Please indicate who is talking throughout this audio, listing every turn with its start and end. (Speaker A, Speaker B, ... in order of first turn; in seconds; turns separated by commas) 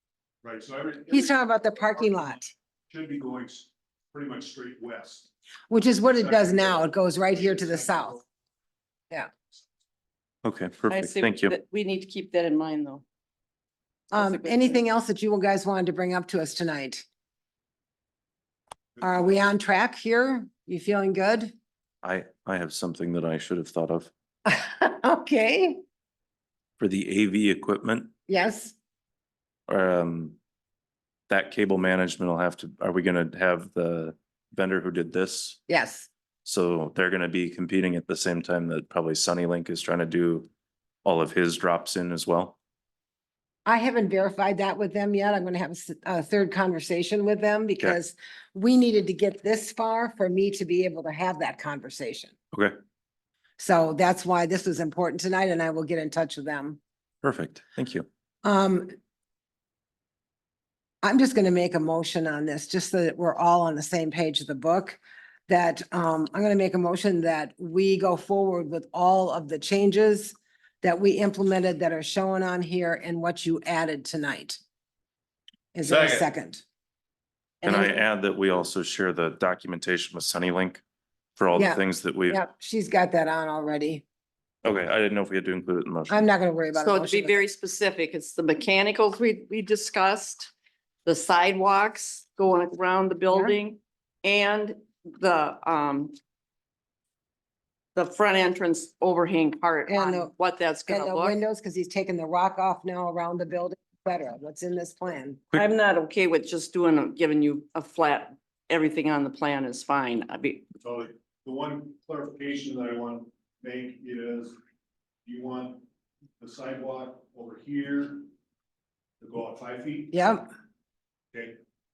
Speaker A: 0.4-5.3, Speaker B: 1.1-2.4, Speaker B: 5.7-8.2, Speaker A: 6.0-8.2, Speaker C: 10.4-11.6, Speaker D: 10.9-13.0, Speaker B: 14.1-17.0, Speaker D: 14.1-14.8, Speaker B: 19.0-21.5, Speaker C: 22.0-24.1, Speaker B: 24.4-25.8, Speaker C: 26.8-28.1, Speaker B: 28.3-28.7, Speaker C: 29.7-30.4, Speaker C: 31.3-35.6, Speaker B: 35.7-36.1, Speaker C: 36.4-40.5, Speaker C: 41.0-42.5, Speaker B: 43.6-52.3, Speaker B: 53.6-56.8, Speaker C: 57.2-58.0, Speaker B: 58.4-58.9, Speaker B: 61.0-74.6, Speaker B: 75.7-76.6, Speaker C: 75.8-76.2, Speaker B: 77.6-77.9, Speaker C: 77.6-80.8, Speaker C: 81.4-82.4, Speaker B: 81.5-84.0, Speaker C: 84.6-86.3, Speaker B: 86.1-87.4, Speaker D: 86.7-90.5, Speaker D: 91.0-96.1, Speaker B: 93.3-93.5, Speaker D: 97.9-101.3, Speaker B: 99.9-100.3, Speaker B: 100.9-105.4, Speaker D: 105.5-110.7, Speaker A: 110.8-114.6, Speaker A: 115.2-115.8, Speaker A: 116.4-118.3, Speaker A: 119.2-120.4, Speaker B: 120.1-120.5, Speaker A: 121.3-121.6